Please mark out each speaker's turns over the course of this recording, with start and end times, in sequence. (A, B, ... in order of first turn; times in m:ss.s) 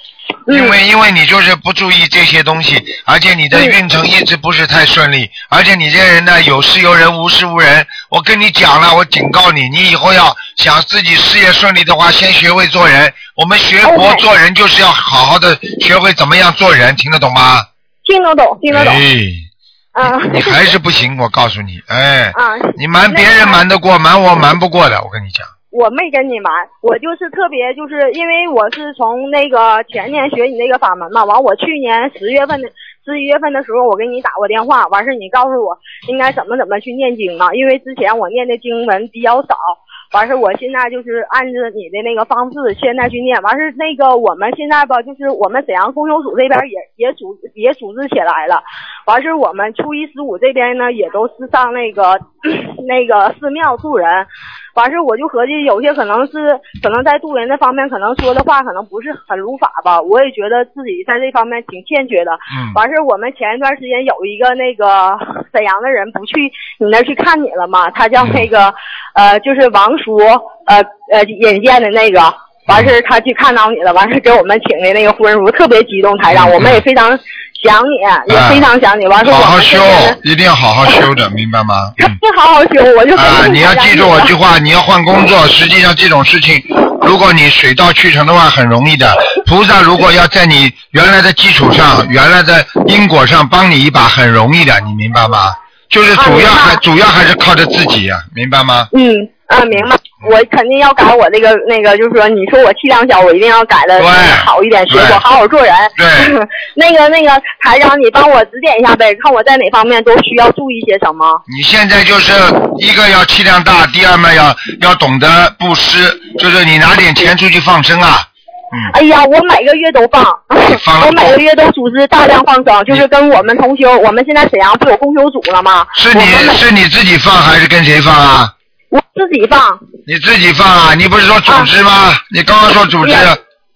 0:00.5-0:00.8 A
0:00.5-0:17.7 B
0:03.5-0:03.8 A
0:13.8-0:14.2 A
0:18.0-0:19.0 A
0:18.7-0:19.5 B
0:19.9-0:20.7 A
0:20.0-0:25.5 B
0:22.3-0:23.6 A
0:25.7-1:20.2 A
1:02.5-1:02.8 B
1:12.7-1:12.9 B
1:16.3-1:16.8 B
1:18.3-1:18.7 B
1:19.2-1:22.2 B
1:22.0-1:24.3 A
1:23.1-1:38.9 B
1:36.2-1:36.8 A
1:38.9-1:51.4 A
1:44.0-1:45.2 B
1:46.0-1:46.3 B
1:51.5-1:58.9 B
1:58.9-2:06.6 A
2:00.6-2:01.4 B
2:05.9-2:08.5 B
2:08.9-2:09.8 A
2:10.0-2:13.4 B
2:13.0-2:13.3 A